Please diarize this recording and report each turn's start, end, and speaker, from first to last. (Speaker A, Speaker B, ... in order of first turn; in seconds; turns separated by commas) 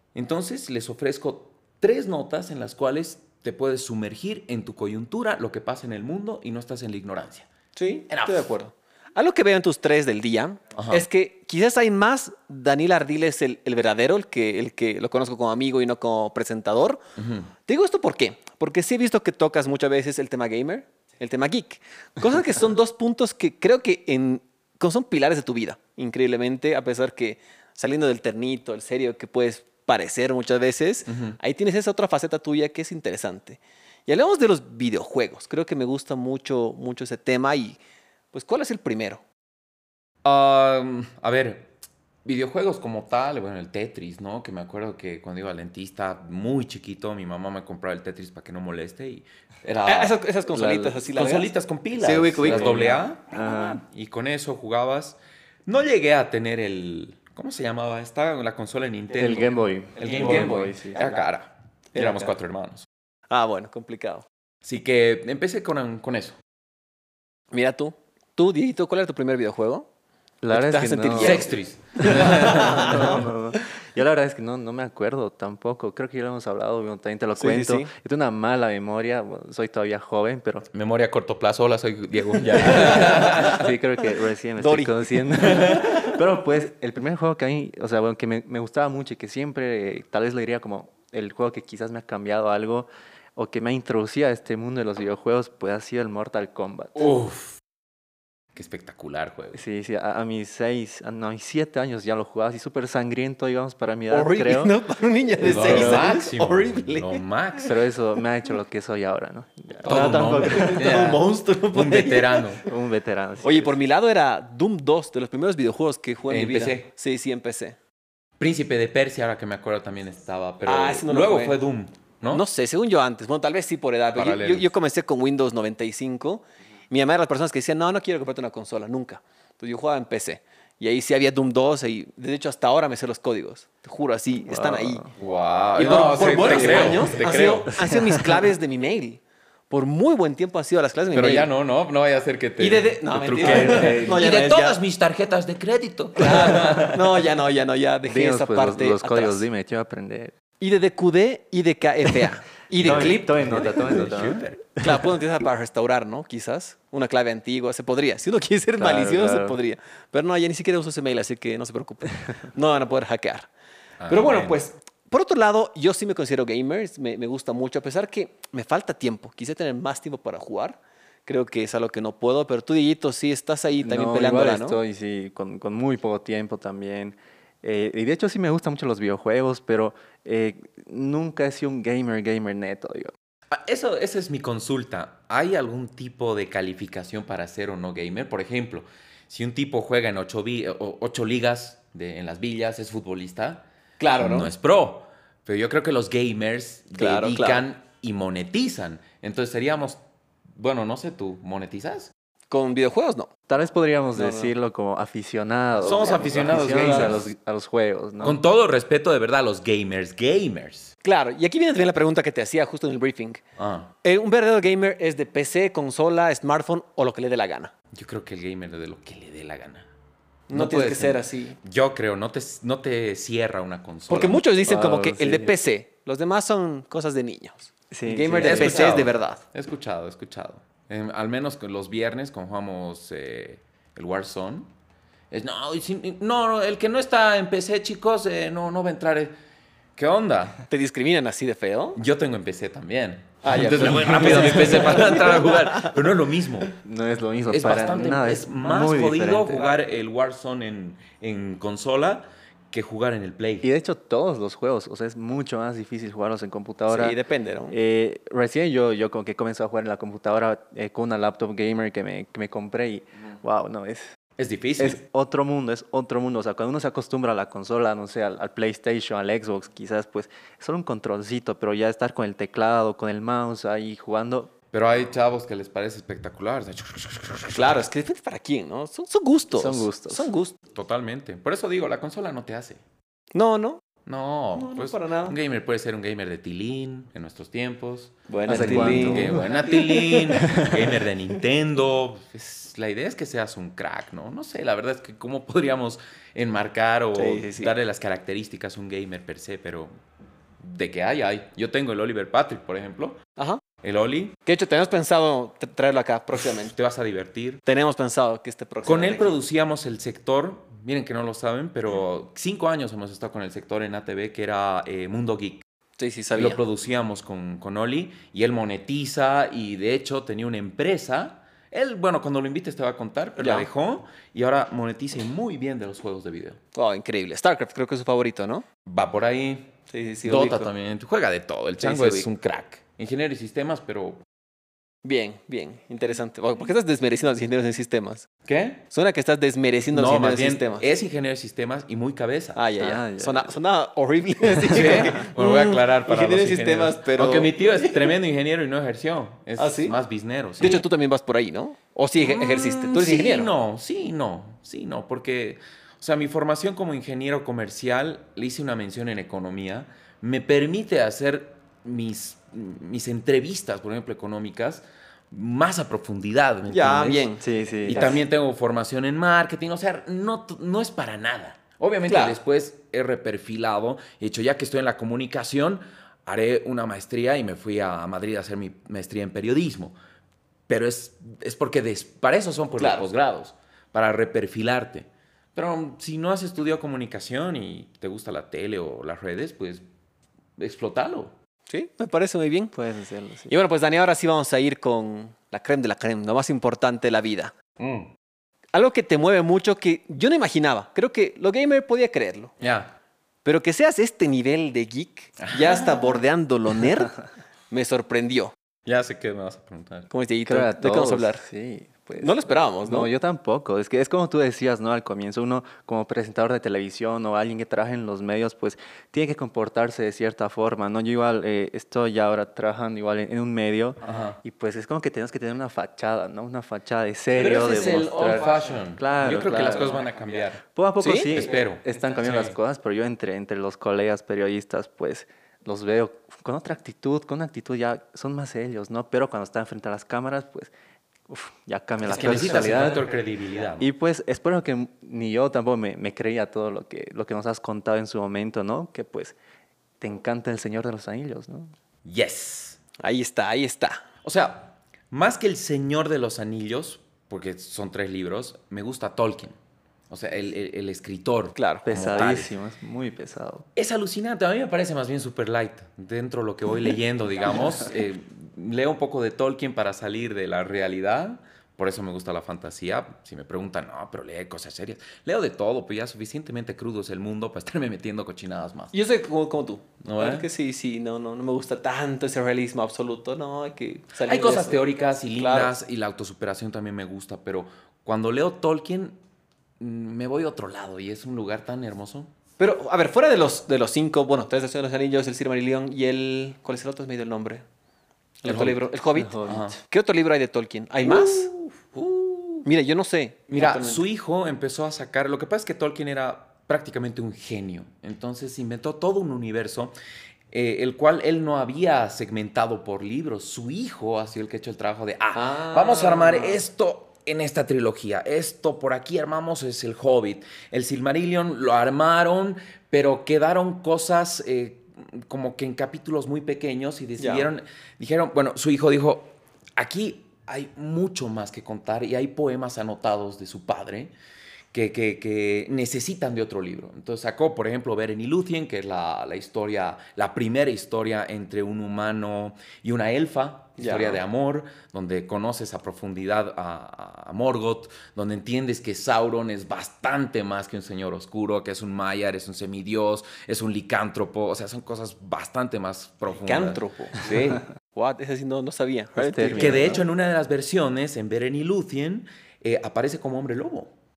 Speaker A: 0.1-7.5, Speaker B: 7.8-17.0, Speaker A: 8.1-8.5, Speaker A: 10.8-11.1, Speaker A: 17.2-17.5, Speaker B: 17.6-37.8, Speaker A: 31.1-31.4, Speaker B: 38.3-39.2, Speaker A: 40.2-41.7, Speaker A: 42.2-50.2, Speaker B: 49.9-53.0, Speaker C: 50.5-51.0, Speaker A: 51.1-62.9, Speaker C: 52.4-53.8, Speaker C: 59.2-61.0, Speaker B: 60.0-61.2, Speaker B: 61.9-62.3, Speaker B: 63.3-64.2, Speaker A: 64.6-66.4, Speaker B: 67.5-69.9, Speaker C: 70.4-71.5, Speaker B: 70.5-73.3, Speaker A: 71.2-73.1, Speaker C: 72.0-80.7, Speaker B: 77.4-77.9, Speaker A: 80.7-83.7, Speaker C: 82.6-97.1, Speaker B: 82.6-83.6, Speaker B: 84.6-85.8, Speaker A: 85.5-86.0, Speaker A: 97.0-97.6, Speaker A: 98.5-99.6, Speaker C: 99.5-104.7, Speaker B: 104.1-107.2, Speaker C: 105.4-106.1, Speaker A: 105.4-107.8, Speaker C: 107.6-111.1, Speaker A: 109.8-112.6, Speaker B: 109.8-112.5, Speaker C: 112.6-113.8, Speaker B: 113.4-117.8, Speaker A: 116.3-116.9, Speaker A: 118.4-122.4, Speaker B: 120.6-121.6, Speaker B: 122.3-135.1, Speaker A: 124.1-124.7, Speaker C: 134.5-135.1, Speaker A: 135.2-137.8, Speaker B: 135.8-141.5, Speaker C: 136.4-137.1, Speaker C: 137.8-138.2, Speaker A: 141.1-147.0, Speaker B: 142.6-144.8, Speaker C: 143.4-144.3, Speaker B: 146.2-149.4, Speaker C: 148.1-150.3, Speaker B: 150.6-154.0, Speaker A: 152.8-154.6, Speaker C: 152.8-155.0, Speaker B: 154.8-163.5, Speaker C: 158.8-159.6, Speaker A: 164.0-164.6, Speaker B: 164.1-174.8, Speaker C: 173.8-183.1, Speaker A: 183.5-193.6, Speaker B: 194.0-194.5, Speaker A: 194.2-200.0, Speaker B: 197.0-197.7, Speaker A: 200.6-202.1, Speaker B: 202.5-203.3, Speaker C: 203.5-208.4, Speaker B: 204.1-204.5, Speaker A: 205.8-207.3, Speaker B: 205.8-207.2, Speaker A: 208.2-210.9, Speaker B: 211.0-213.4, Speaker A: 213.6-213.9, Speaker B: 214.0-217.7, Speaker A: 217.9-219.9, Speaker B: 220.5-221.6, Speaker A: 220.5-224.4, Speaker B: 224.1-229.4, Speaker C: 224.6-225.5, Speaker C: 227.9-229.0, Speaker A: 228.4-234.7, Speaker A: 235.3-239.3, Speaker A: 240.0-240.6, Speaker B: 240.7-242.0, Speaker A: 241.9-246.7, Speaker B: 243.4-245.9, Speaker C: 243.8-245.0, Speaker C: 246.8-249.6, Speaker A: 247.5-253.7, Speaker C: 253.6-257.2, Speaker B: 256.9-257.8, Speaker C: 257.7-264.1, Speaker A: 264.4-265.0, Speaker C: 264.8-274.5, Speaker A: 274.7-277.8, Speaker B: 277.5-280.5, Speaker C: 279.6-280.3, Speaker A: 280.7-282.8, Speaker B: 283.3-283.8, Speaker A: 284.1-299.9, Speaker B: 284.5-285.4, Speaker B: 288.3-290.4, Speaker C: 288.5-289.5, Speaker C: 290.3-290.9, Speaker B: 297.1-297.7, Speaker A: 300.6-303.2, Speaker B: 303.4-303.6, Speaker A: 303.8-304.4, Speaker B: 304.4-306.7, Speaker A: 306.6-307.6, Speaker B: 307.6-309.3, Speaker A: 308.8-315.6, Speaker B: 316.0-316.6, Speaker A: 316.3-326.6, Speaker B: 323.4-323.7, Speaker B: 326.7-328.6, Speaker A: 328.9-329.7, Speaker B: 329.9-330.7, Speaker A: 330.2-334.2, Speaker B: 331.8-332.3, Speaker B: 335.0-338.3, Speaker A: 338.4-338.8, Speaker B: 338.9-340.9, Speaker A: 339.9-342.6, Speaker B: 342.5-348.0, Speaker C: 342.8-343.5, Speaker A: 344.6-350.8, Speaker B: 349.6-349.9, Speaker B: 350.6-353.5, Speaker A: 352.2-367.3, Speaker B: 366.7-368.2, Speaker C: 367.4-368.1, Speaker A: 367.8-380.0, Speaker B: 372.1-372.4, Speaker A: 380.7-389.8, Speaker B: 382.8-383.1, Speaker A: 390.6-391.3, Speaker B: 391.7-392.7, Speaker C: 392.7-393.5, Speaker B: 393.5-397.5, Speaker A: 397.8-398.1, Speaker B: 398.7-402.5, Speaker A: 402.6-402.9, Speaker B: 403.4-408.5, Speaker A: 405.4-406.2, Speaker A: 408.9-410.1, Speaker B: 410.1-411.4, Speaker C: 410.5-430.0, Speaker B: 412.2-413.1, Speaker A: 424.0-424.4, Speaker A: 427.4-430.6, Speaker C: 430.6-440.7, Speaker B: 431.0-431.3, Speaker A: 431.2-432.6, Speaker C: 441.3-443.0, Speaker A: 442.1-443.9, Speaker B: 442.1-443.0, Speaker C: 443.8-449.4, Speaker C: 450.0-451.7, Speaker A: 452.0-452.8, Speaker B: 453.0-454.0, Speaker A: 454.2-459.5, Speaker A: 460.1-462.5, Speaker B: 461.5-461.9, Speaker C: 461.9-463.7, Speaker A: 463.8-478.9, Speaker B: 478.9-484.8, Speaker A: 480.0-480.5, Speaker A: 484.2-489.2, Speaker B: 485.4-485.7, Speaker A: 489.8-492.3, Speaker B: 492.6-497.6, Speaker B: 498.4-501.5, Speaker A: 498.4-498.9, Speaker C: 499.2-499.7, Speaker A: 499.4-499.8, Speaker A: 501.0-502.7, Speaker B: 502.6-504.0, Speaker A: 503.5-509.9, Speaker A: 510.5-534.1, Speaker B: 515.3-516.6, Speaker B: 527.2-527.5, Speaker A: 534.7-557.6, Speaker B: 543.8-544.2, Speaker B: 556.3-557.3, Speaker B: 557.9-560.0, Speaker C: 559.2-560.0, Speaker A: 559.5-563.9